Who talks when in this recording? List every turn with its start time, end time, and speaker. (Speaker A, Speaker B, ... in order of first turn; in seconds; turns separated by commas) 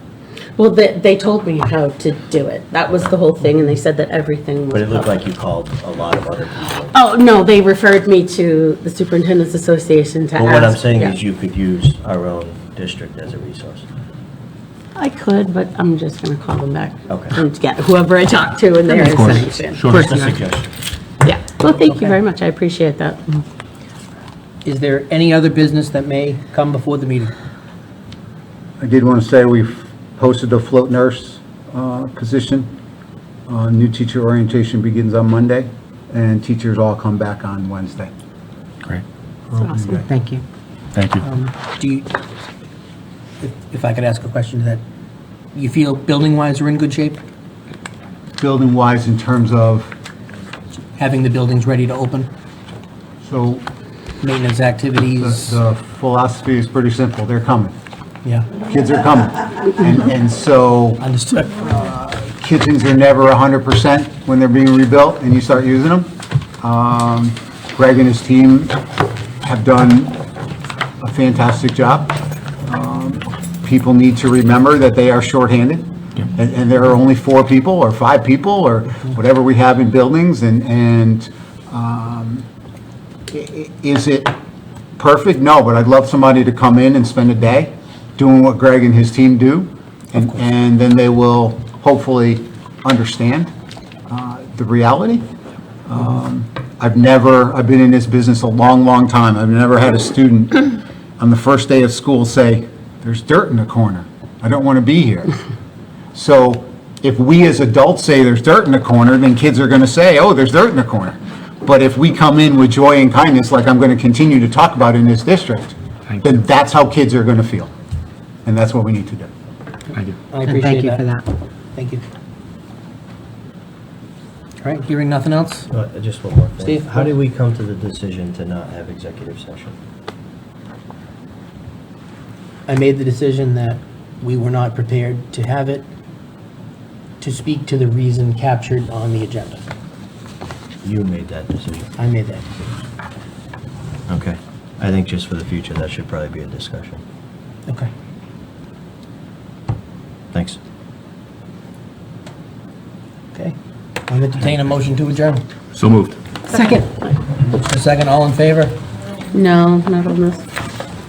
Speaker A: 0.6-5.1, Speaker B: 4.7-7.0, Speaker A: 6.9-11.2, Speaker B: 10.3-13.9, Speaker A: 15.0-20.0, Speaker B: 17.1-17.4, Speaker C: 18.9-20.4, Speaker B: 19.9-20.7, Speaker A: 21.2-23.4, Speaker D: 21.8-22.2, Speaker D: 24.6-27.3, Speaker E: 28.8-32.7, Speaker E: 33.5-38.1, Speaker E: 39.5-40.1, Speaker A: 39.6-39.9, Speaker D: 41.2-42.1, Speaker D: 43.4-44.8, Speaker D: 45.5-47.2, Speaker E: 48.4-49.9, Speaker D: 51.0-52.3, Speaker E: 53.2-53.6, Speaker D: 54.2-55.6, Speaker E: 55.2-57.8, Speaker E: 58.6-61.0, Speaker D: 61.0-61.7, Speaker E: 61.6-68.8, Speaker E: 69.4-70.2, Speaker E: 71.0-82.5, Speaker E: 83.3-84.3, Speaker E: 85.0-93.5, Speaker E: 94.1-95.2, Speaker E: 95.9-100.7, Speaker E: 101.2-105.4, Speaker E: 106.1-117.7, Speaker E: 118.5-119.3, Speaker C: 119.9-120.9, Speaker D: 120.3-121.1, Speaker D: 121.8-122.0, Speaker D: 124.6-125.7, Speaker B: 125.7-129.8, Speaker D: 126.6-127.0, Speaker D: 132.7-135.9, Speaker D: 137.2-139.6, Speaker B: 140.8-142.0, Speaker D: 142.0-142.4, Speaker B: 144.1-147.0, Speaker B: 150.3-150.6, Speaker D: 154.1-155.5, Speaker C: 155.8-156.2, Speaker D: 156.5-156.9, Speaker D: 157.4-158.8, Speaker A: 159.3-160.5